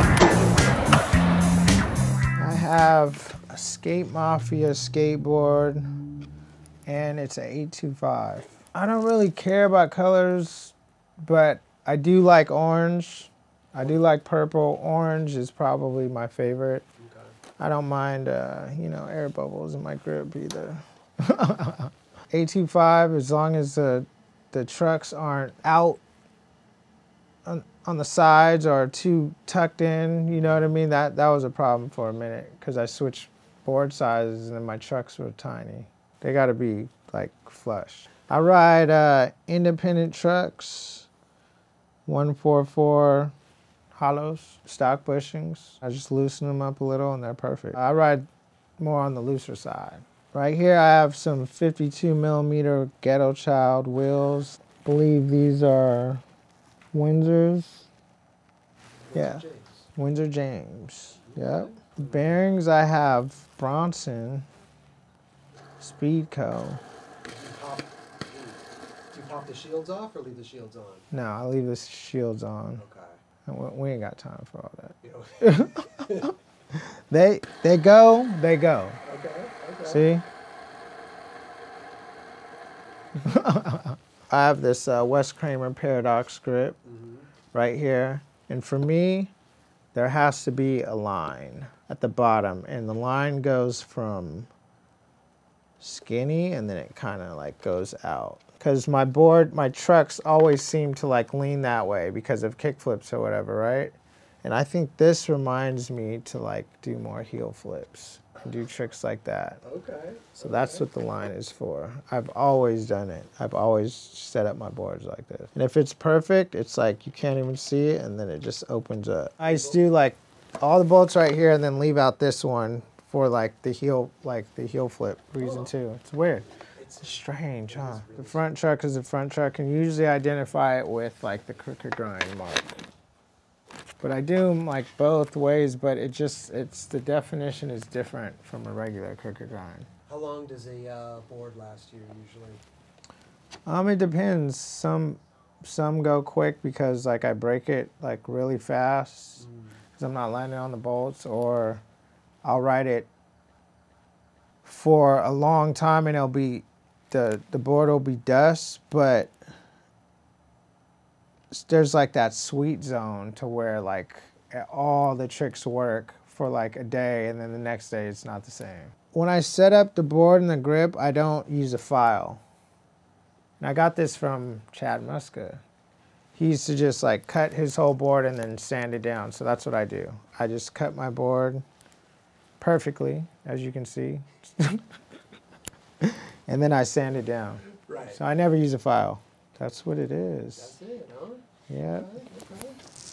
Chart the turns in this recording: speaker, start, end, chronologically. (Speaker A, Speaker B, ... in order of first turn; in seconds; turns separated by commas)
Speaker A: 2.4-5.9, Speaker A: 6.9-16.9, Speaker B: 17.0-17.4, Speaker A: 17.6-26.0, Speaker A: 27.5-41.1, Speaker A: 42.1-43.3, Speaker A: 43.9-48.3, Speaker A: 48.8-56.2, Speaker A: 56.9-57.9, Speaker B: 59.1-59.9, Speaker A: 59.1-59.4, Speaker A: 60.0-64.5, Speaker B: 61.2-62.5, Speaker A: 65.8-66.8, Speaker B: 67.2-71.1, Speaker A: 71.1-72.8, Speaker B: 72.8-73.2, Speaker A: 73.5-79.0, Speaker B: 75.0-76.3, Speaker B: 79.0-80.1, Speaker A: 79.8-80.2, Speaker A: 83.2-86.8, Speaker B: 86.8-87.3, Speaker A: 87.5-89.3, Speaker A: 89.9-94.5, Speaker A: 95.8-109.6, Speaker B: 109.6-110.9, Speaker A: 110.4-132.8, Speaker B: 119.4-119.8, Speaker B: 125.4-125.7, Speaker B: 126.8-128.5, Speaker A: 134.0-139.9, Speaker B: 140.1-142.6, Speaker A: 143.7-149.4, Speaker B: 149.4-149.8, Speaker A: 150.0-151.8, Speaker A: 152.4-153.1, Speaker A: 154.6-159.3, Speaker A: 161.5-172.4, Speaker A: 173.6-175.6, Speaker A: 176.3-181.6, Speaker A: 182.6-184.8, Speaker A: 186.0-190.8, Speaker B: 187.9-188.2, Speaker B: 190.5-192.8, Speaker A: 191.7-192.1